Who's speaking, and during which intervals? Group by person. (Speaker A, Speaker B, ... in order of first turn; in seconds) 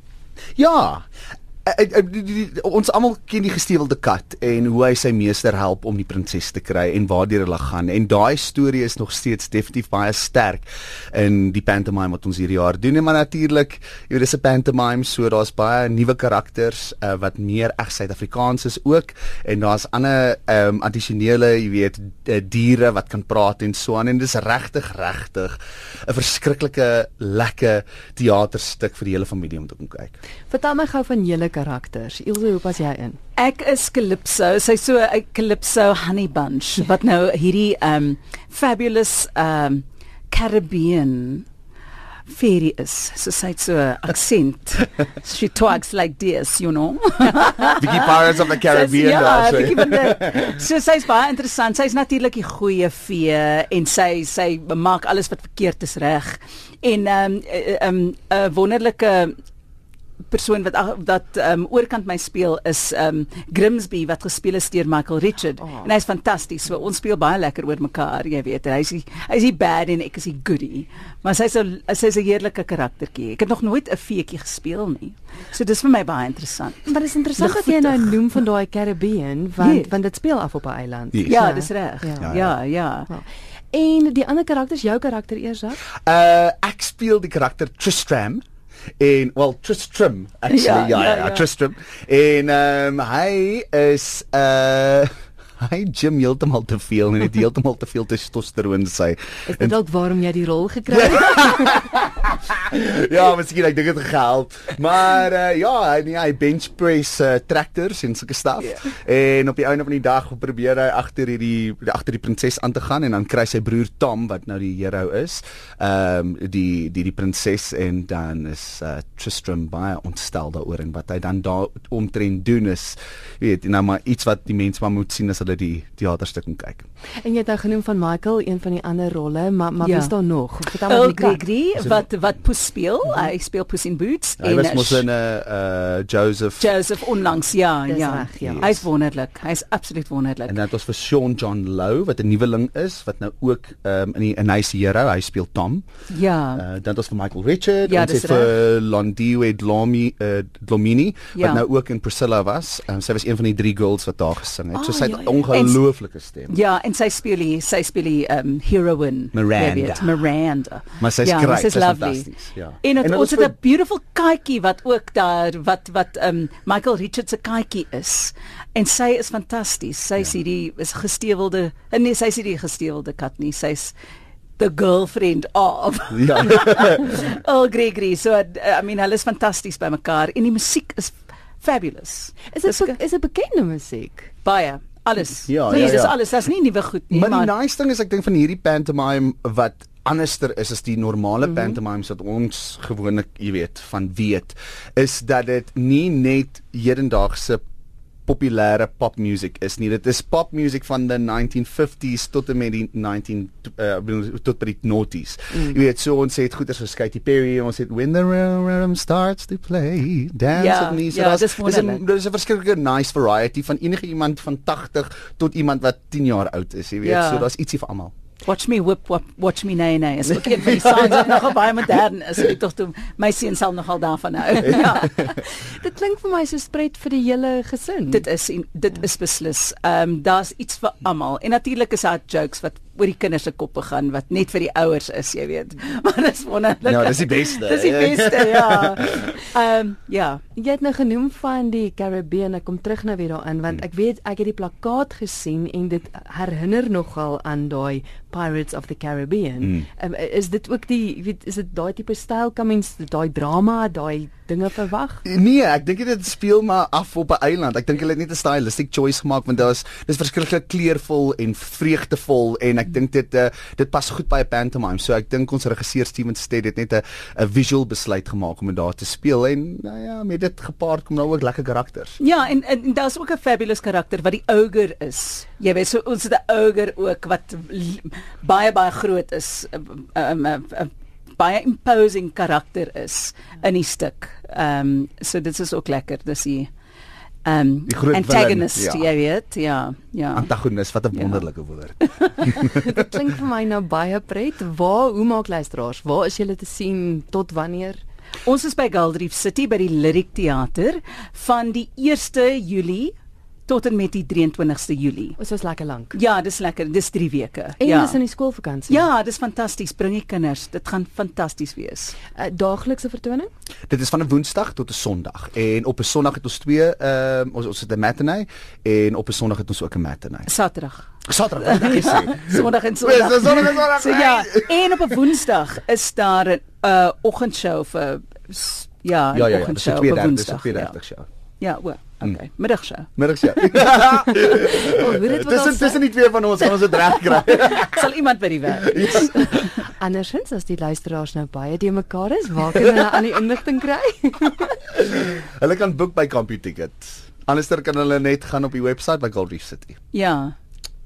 Speaker A: 0.6-1.1, 1.6-30.2, 47.8-50.6, 81.1-81.4, 82.2-82.5, 86.0-88.4, 89.0-99.7, 100.9-126.8, 131.8-132.1, 134.4-136.7, 138.4-138.8, 140.5-145.8, 146.5-156.5, 159.3-160.1, 161.0-163.5, 176.1-177.2, 185.5-186.2, 187.1-197.6, 198.3-218.1, 220.7-221.2, 236.8-239.4, 255.2-272.2, 287.9-289.1, 290.3-293.0, 313.9-320.5, 321.2-325.2, 329.3-331.3, 333.2-338.1, 338.8-339.7, 344.9-350.0
Speaker B: 30.5-33.2, 65.6-65.9, 76.8-82.3, 83.1-85.8, 99.5-101.8, 127.2-131.4, 137.9-138.7, 182.5-184.3, 191.5-191.8, 224.7-228.2, 240.5-255.2, 292.5-298.0, 305.4-306.2, 307.8-309.1, 312.3-313.5, 334.5-336.0, 339.8-344.8
Speaker C: 33.4-41.5, 42.3-59.3, 60.3-78.2, 79.6-79.9, 81.3-83.1, 90.5-91.5, 129.8-130.1, 130.7-135.1, 136.6-140.6, 146.1-146.6, 147.8-148.5, 151.3-151.6, 154.7-155.8, 156.5-173.9, 174.6-183.0, 184.4-187.5, 210.5-212.0, 217.0-217.5, 218.4-225.3, 228.1-240.4, 272.2-286.7, 287.4-290.5, 291.1-291.4, 292.1-292.5, 298.4-303.1, 303.7-305.4, 306.1-308.2, 308.9-312.1, 320.5-321.1, 321.6-330.9, 331.6-333.1, 337.3-339.8, 350.1-350.5